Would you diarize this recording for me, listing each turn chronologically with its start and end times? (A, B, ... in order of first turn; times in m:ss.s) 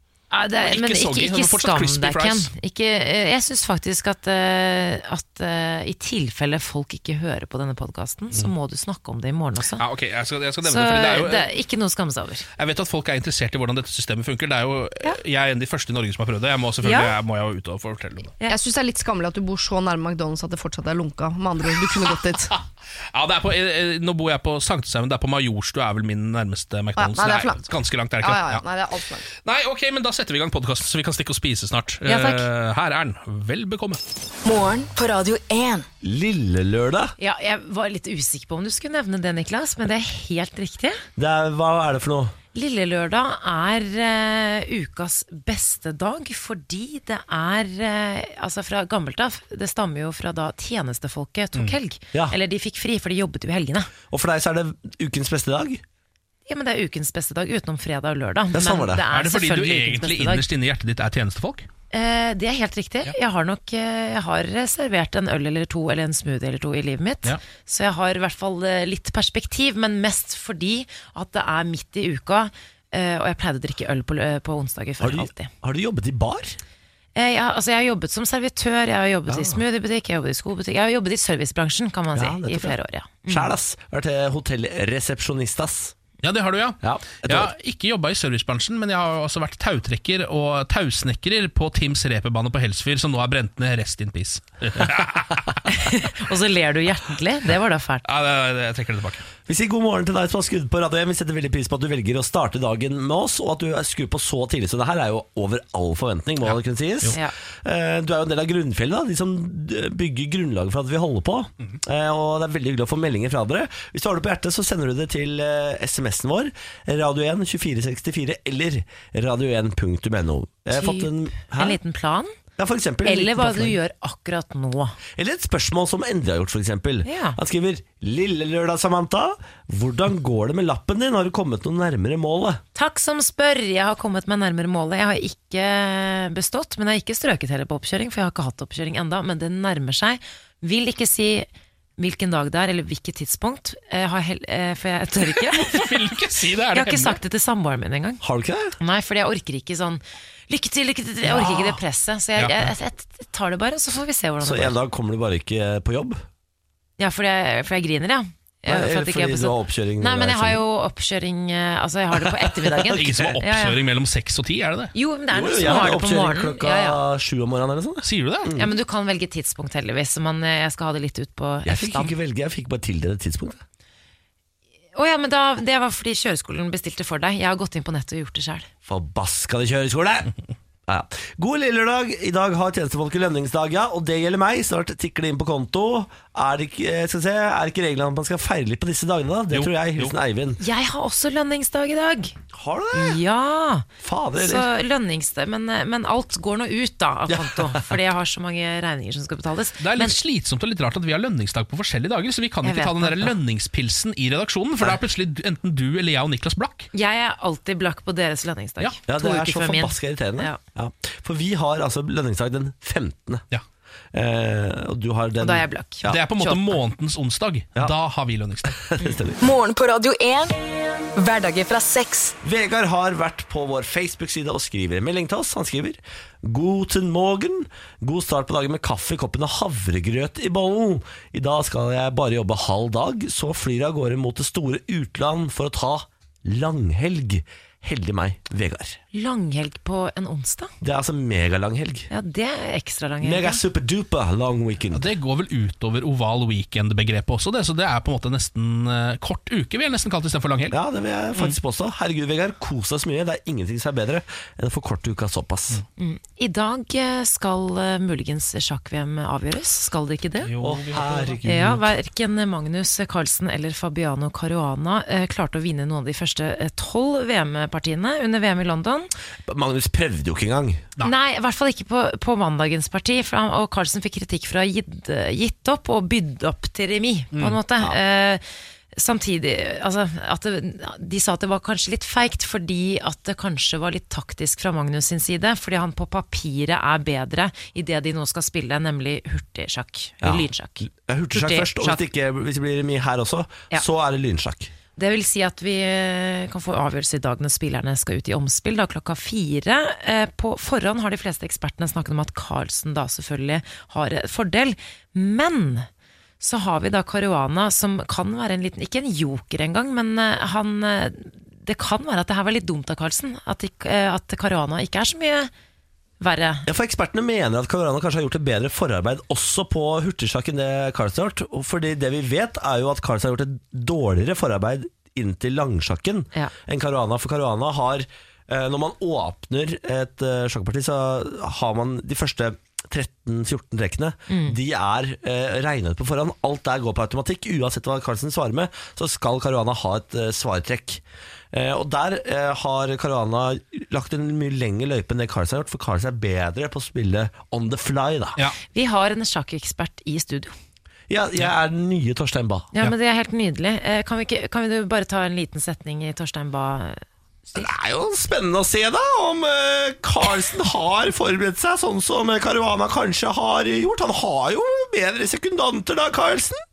0:00.3-0:09.8 A
0:00.6-0:02.5 B
0:09.8-0:11.5 B
0:10.6-0:12.4 A
0:12.6-0:18.3 B
0:16.8-0:17.2 A
0:18.5-0:22.5 C
0:23.1-0:28.6 B
0:27.0-0:27.6 C
0:28.2-0:29.2 C
0:29.3-0:34.0 B
0:32.0-0:32.4 A
0:34.4-0:35.9 D
0:36.0-0:37.1 E
0:37.2-0:41.0 A
0:41.2-0:42.3 E
0:42.5-0:53.9 A
0:54.1-0:55.8 E
0:56.5-1:00.4 A
0:58.5-0:59.0 E
0:59.1-1:01.7 B
1:01.9-1:15.5 A
1:15.0-1:16.6 E
1:17.1-1:23.5 A
1:19.3-1:19.6 E
1:22.1-1:25.9 E
1:26.2-1:35.6 B
1:26.8-1:27.5 E
1:35.7-1:38.0 A
1:38.0-1:39.2 B
1:39.4-2:01.8 E
1:46.4-1:47.2 B
2:00.7-2:02.3 A
2:02.6-2:03.8 E
2:03.0-2:05.0 A
2:05.2-2:12.6 E
2:07.0-2:07.4 A
2:12.8-2:26.0 A
2:25.2-2:27.2 B
2:26.7-2:28.2 A
2:28.2-2:28.8 E
2:28.8-2:34.8 A
2:32.4-2:32.7 B
2:34.4-2:36.2 E
2:37.0-2:43.8 A
2:38.7-2:40.6 E
2:42.2-2:43.3 E
2:42.9-2:44.9 B
2:44.9-2:47.0 A
2:45.3-2:48.7 E
2:48.0-2:48.5 B
2:48.5-2:52.1 A
2:51.6-2:53.6 E
2:54.9-2:58.7 A
2:58.8-3:00.3 E
3:00.9-3:10.6 E
3:09.5-3:10.2 B
3:10.6-3:12.3 A
3:12.5-3:13.2 E
3:12.9-3:20.2 A
3:14.0-3:14.7 E
3:17.3-3:18.0 E
3:19.8-3:26.9 B
3:22.6-3:23.4 A
3:26.9-3:30.6 A
3:29.1-3:33.4 E
3:34.1-3:36.2 E
3:35.4-3:36.8 A
3:36.1-3:38.8 B
3:38.6-3:39.4 E
3:39.4-3:40.5 D
3:41.1-3:42.4 D
3:42.4-3:59.0 E
3:59.1-4:00.7 A
4:00.8-4:02.1 E
4:02.1-4:03.6 A
4:03.2-4:05.0 E
4:04.9-4:10.8 B
4:10.7-4:15.8 E
4:16.0-4:20.5 A
4:20.4-4:21.4 B
4:20.6-4:21.9 E
4:21.4-4:29.1 A
4:29.4-4:30.8 E
4:31.0-4:38.4 A
4:38.9-4:52.0 A
4:50.2-4:54.7 E
4:55.0-5:05.9 A
5:06.4-5:15.5 A
5:16.2-5:16.7 A
5:16.6-5:48.4 E
5:34.3-5:34.6 A
5:48.7-5:50.5 A
5:51.1-5:52.7 E
5:52.7-5:57.0 A
5:57.5-6:06.6 E